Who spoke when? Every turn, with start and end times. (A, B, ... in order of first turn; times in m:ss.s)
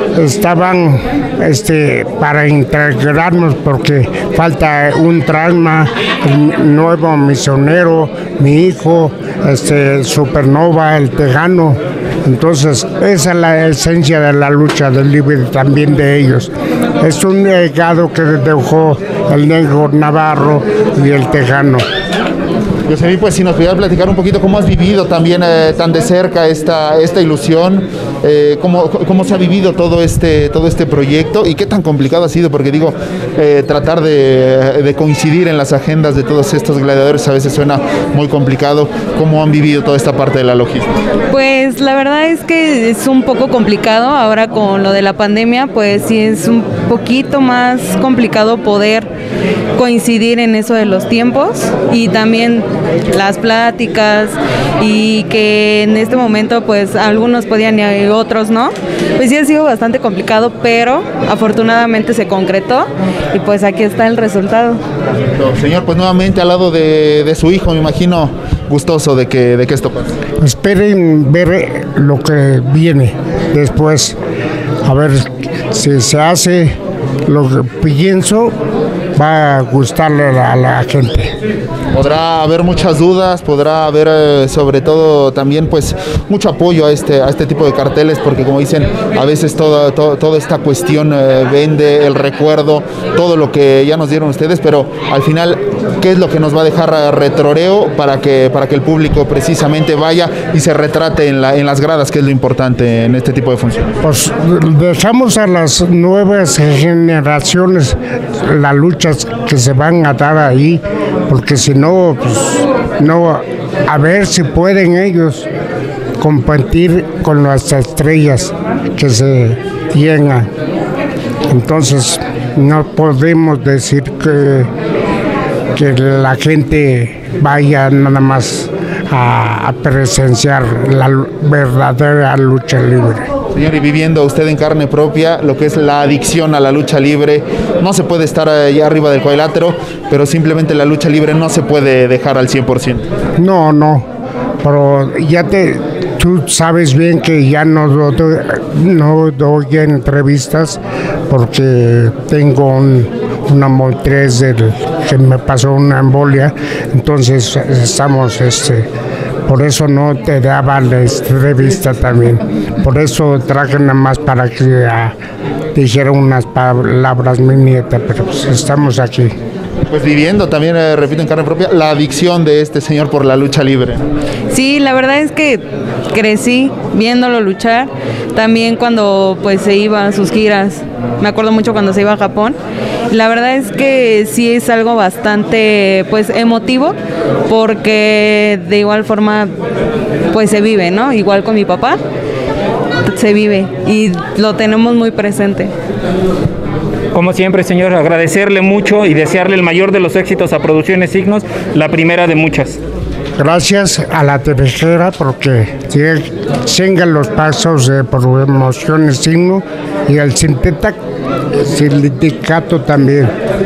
0:00.2-0:21.8 A
0:22.9-0:40.9 B
0:41.3-0:49.1 C
0:49.7-1:04.8 C
1:05.4-1:10.2 B
1:10.4-1:14.2 A
1:14.8-1:18.5 A
1:19.2-1:21.4 A
1:21.9-1:43.9 B
1:44.0-1:55.5 A
1:56.2-2:00.5 A
2:01.5-2:04.7 A
2:05.8-2:13.3 A
2:13.5-2:23.1 B
2:23.4-2:24.1 A
2:24.6-2:38.9 A
2:39.4-2:45.2 A
2:45.8-2:49.3 A
2:49.9-2:54.0 B
2:54.5-3:02.6 C
3:03.1-3:09.5 C
3:10.3-3:12.0 C
3:13.0-3:15.7 C
3:17.1-3:22.8 D
3:23.4-3:31.0 A
3:31.5-3:33.3 A